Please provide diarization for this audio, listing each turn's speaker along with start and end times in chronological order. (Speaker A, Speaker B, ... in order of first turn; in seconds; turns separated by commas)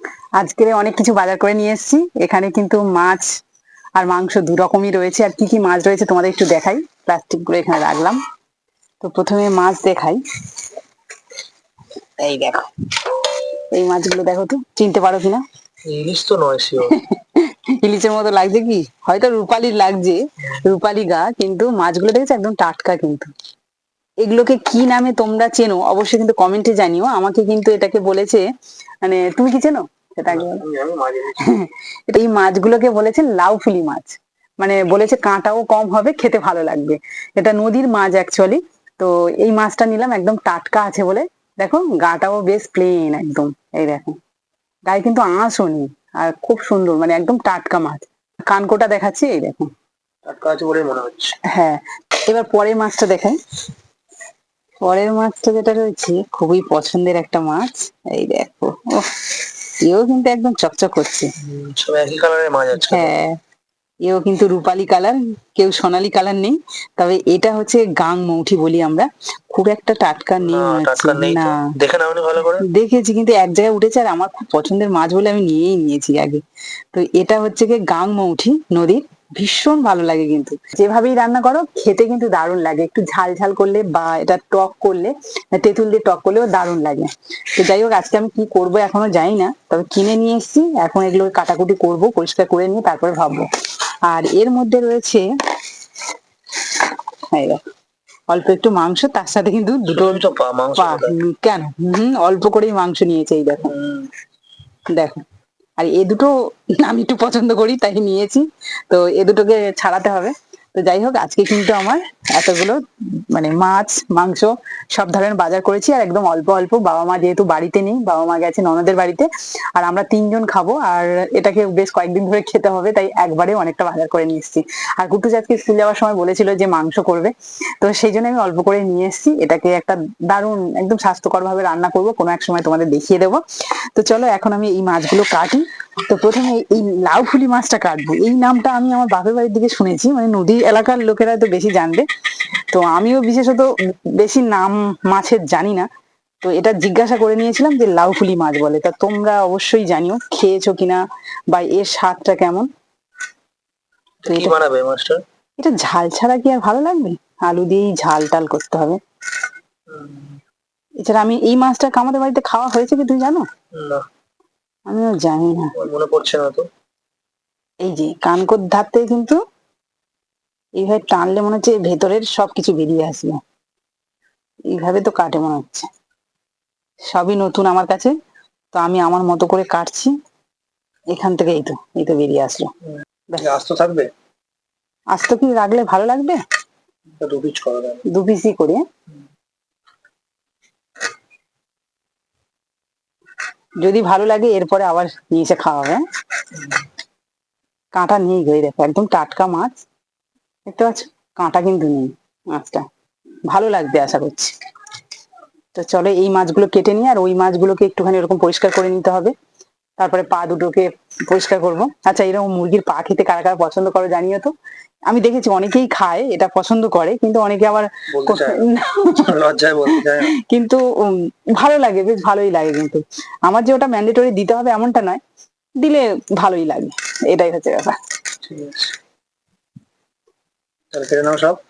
Speaker A: 0.4-3.2, Speaker A: 4.0-8.2, Speaker A: 9.0-10.2, Speaker A: 12.2-15.4, Speaker B: 15.8-16.9, Speaker A: 16.8-23.3, Speaker A: 24.2-28.4, Speaker A: 29.0-30.6, Speaker B: 30.3-31.5, Speaker A: 31.3-44.2, Speaker A: 44.9-49.7, Speaker B: 50.2-51.3, Speaker A: 51.5-53.4, Speaker A: 54.8-61.3, Speaker B: 61.4-63.1, Speaker A: 62.7-63.4, Speaker A: 64.0-71.7, Speaker B: 70.4-72.7, Speaker A: 72.6-93.5, Speaker A: 94.0-95.2, Speaker A: 96.7-97.6, Speaker A: 98.3-100.2, Speaker B: 99.9-101.1, Speaker A: 100.8-103.7, Speaker B: 103.7-104.1, Speaker A: 104.9-105.2, Speaker A: 105.8-133.4, Speaker A: 133.9-142.1, Speaker A: 142.7-145.9, Speaker A: 146.4-152.7, Speaker B: 154.2-155.2, Speaker A: 154.3-154.6, Speaker A: 155.6-159.0, Speaker B: 159.9-160.4, Speaker A: 161.0-163.4, Speaker B: 163.7-164.0, Speaker A: 164.9-165.7, Speaker B: 165.7-166.7, Speaker A: 167.8-169.4, Speaker A: 170.8-173.4, Speaker A: 174.7-175.9, Speaker A: 177.1-178.1, Speaker A: 178.7-180.1, Speaker A: 181.1-182.7, Speaker B: 183.4-184.1, Speaker A: 185.1-186.4, Speaker B: 187.2-188.0, Speaker A: 188.1-188.8, Speaker A: 193.8-196.0, Speaker A: 197.9-199.8, Speaker A: 200.7-202.8, Speaker A: 203.5-204.5, Speaker A: 205.7-209.3, Speaker A: 210.0-214.5, Speaker A: 215.1-219.3, Speaker B: 218.1-220.3, Speaker A: 219.9-225.2, Speaker A: 225.8-228.0, Speaker B: 228.4-228.9, Speaker B: 230.9-231.6